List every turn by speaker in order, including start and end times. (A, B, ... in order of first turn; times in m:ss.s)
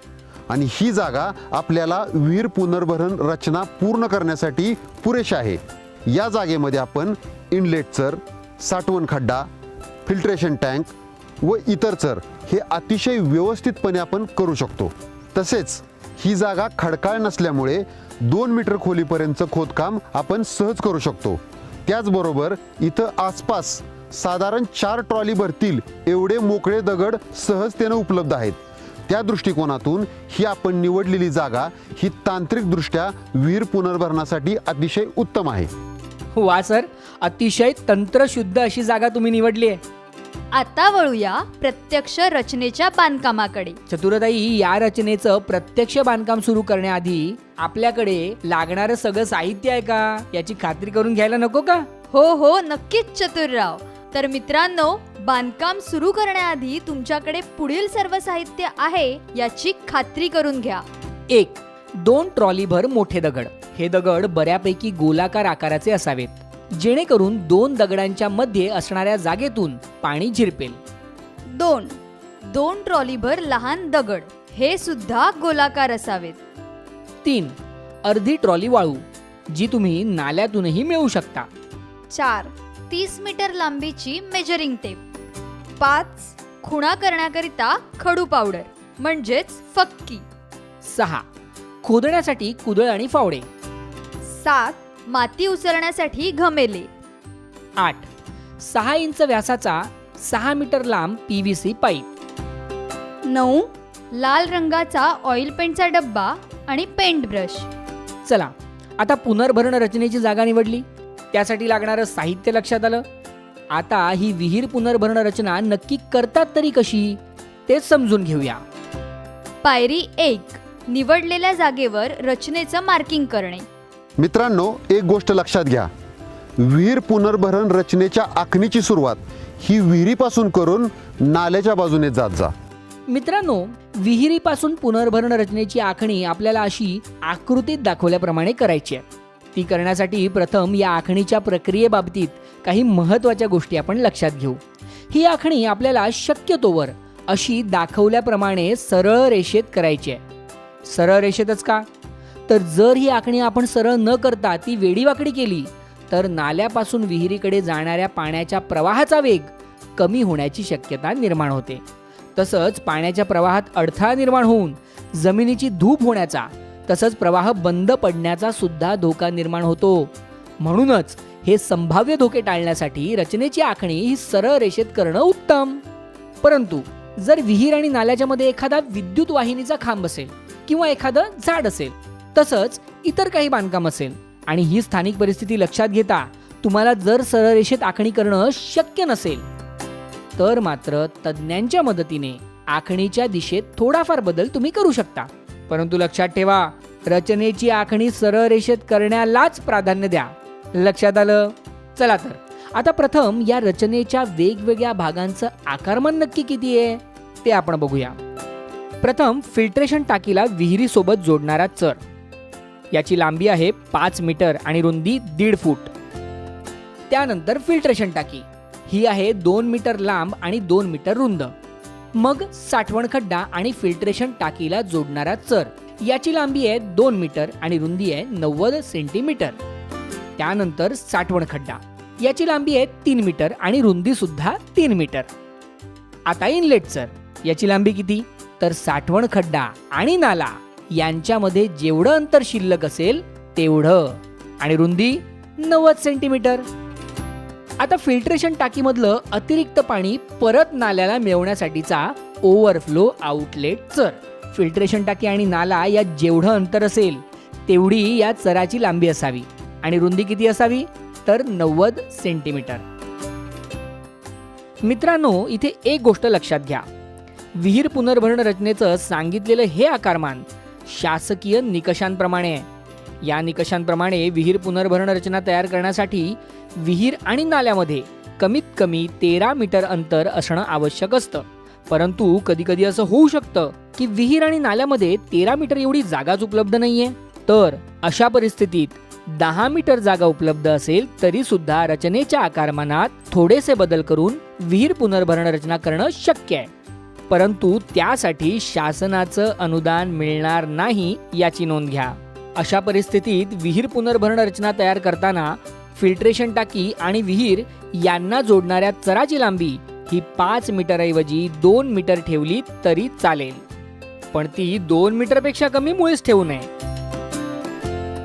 0:00.5-0:09.5 A
0:10.0-0:35.7 A
0:36.3-0:39.8 B
0:40.5-0:43.8 C
0:43.9-0:51.9 B
0:52.1-1:00.8 C
1:01.3-1:10.8 B
1:11.5-1:16.4 C
1:17.2-1:21.5 B
1:22.1-1:25.0 C
1:25.8-1:30.2 C
1:30.8-1:31.2 B
1:31.8-1:33.5 B
1:34.3-1:36.9 C
1:37.8-1:38.1 B
1:38.6-1:42.1 B
1:43.2-1:47.7 C
1:48.2-1:53.0 B
1:53.7-1:58.6 B
1:59.6-2:03.6 C
2:04.2-2:05.9 A
2:06.6-2:12.5 A
2:13.1-2:30.2 B
2:30.8-2:31.8 B
2:32.5-2:41.8 B
2:42.4-2:50.1 B
2:50.6-2:55.8 B
2:56.4-3:09.4 B
3:10.4-3:28.2 B
3:29.0-3:32.0 B
3:32.9-3:35.9 B
3:37.1-3:41.5 B
3:42.1-3:49.6 B
3:50.4-3:55.3 B
3:56.3-4:06.6 B
4:07.8-4:22.8 B
4:24.8-4:26.9 B
4:27.5-4:32.7 B
4:33.2-4:56.7 B
4:57.3-5:13.6 B
5:14.3-5:16.7 B